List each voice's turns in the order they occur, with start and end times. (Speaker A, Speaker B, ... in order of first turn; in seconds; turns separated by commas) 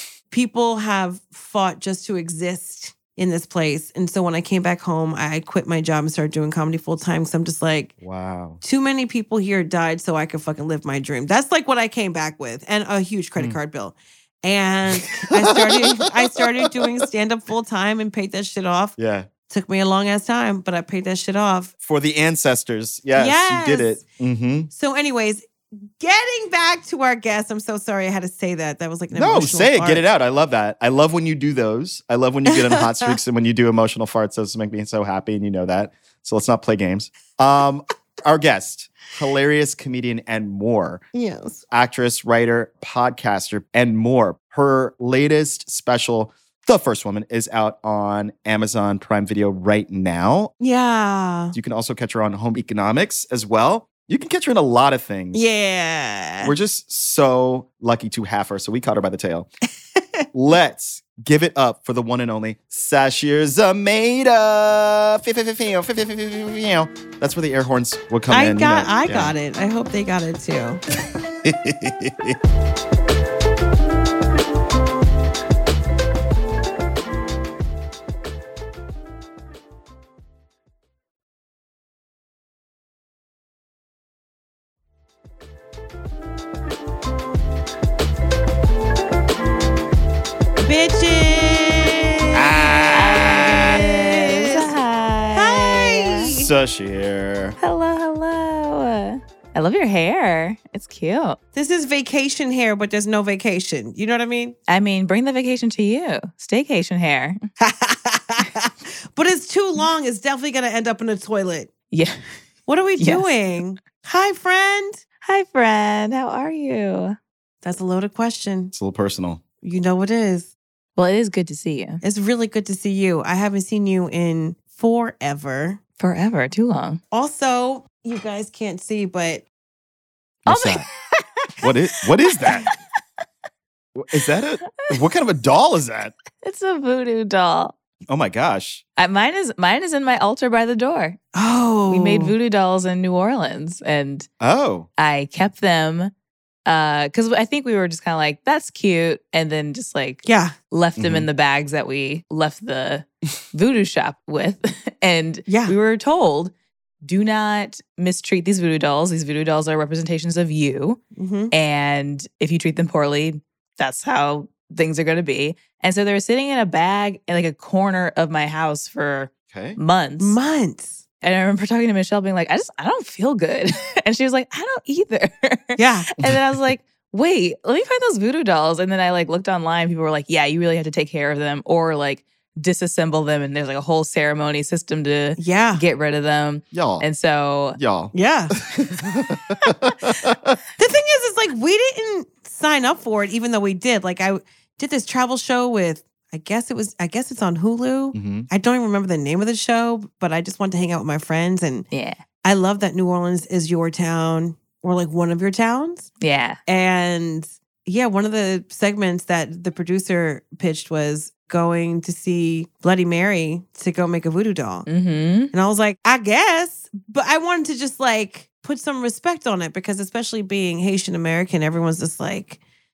Speaker A: 0.3-7.9, Speaker B: 8.0-8.6, Speaker A: 8.6-18.9, Speaker B: 14.9-16.8, Speaker B: 19.0-19.3, Speaker A: 19.5-21.7, Speaker B: 21.8-24.7, Speaker A: 23.1-24.0, Speaker A: 24.7-25.5, Speaker A: 26.0-30.0, Speaker B: 29.1-41.0, Speaker A: 32.5-33.1, Speaker A: 41.1-41.6, Speaker B: 41.7-50.5, Speaker A: 50.6-51.5, Speaker B: 51.5-55.4, Speaker A: 55.3-56.5, Speaker B: 56.4-59.5, Speaker B: 60.3-69.3, Speaker A: 68.3-70.8, Speaker B: 71.4-72.4, Speaker A: 90.6-92.4, Speaker B: 92.3-93.8, Speaker C: 92.9-96.3, Speaker A: 93.6-94.7, Speaker A: 95.3-96.5, Speaker B: 96.2-97.5, Speaker C: 97.6-101.4, Speaker A: 101.5-104.5, Speaker C: 104.7-107.4, Speaker A: 107.6-111.7, Speaker A: 112.7-115.0, Speaker C: 113.0-113.3, Speaker C: 115.2-117.2, Speaker A: 117.6-118.7, Speaker B: 118.7-119.4, Speaker A: 119.6-120.5, Speaker C: 121.0-122.0, Speaker A: 122.0-125.8, Speaker C: 126.0-127.0, Speaker A: 127.1-129.4, Speaker B: 130.4-130.8, Speaker C: 130.5-132.8, Speaker B: 131.6-132.7, Speaker B: 133.9-136.1, Speaker C: 136.4-137.7, Speaker B: 138.1-138.8, Speaker C: 139.0-141.2, Speaker A: 141.3-142.3, Speaker C: 141.9-144.3, Speaker B: 144.4-144.9, Speaker C: 145.0-146.1, Speaker C: 146.7-156.5, Speaker A: 150.2-150.5, Speaker B: 151.0-151.3, Speaker A: 155.5-155.7, Speaker C: 157.0-161.0, Speaker A: 161.2-161.5, Speaker C: 161.5-170.3, Speaker B: 169.5-169.8, Speaker A: 170.2-171.0, Speaker C: 171.2-187.8, Speaker A: 175.8-176.1, Speaker A: 185.4-185.8, Speaker B: 186.7-187.0, Speaker B: 187.8-190.6, Speaker A: 188.1-188.5, Speaker A: 190.8-201.8, Speaker B: 198.1-198.5, Speaker C: 201.9-202.2, Speaker A: 202.4-206.1, Speaker C: 206.2-206.6, Speaker A: 206.7-214.9, Speaker C: 214.9-215.5, Speaker A: 215.5-222.6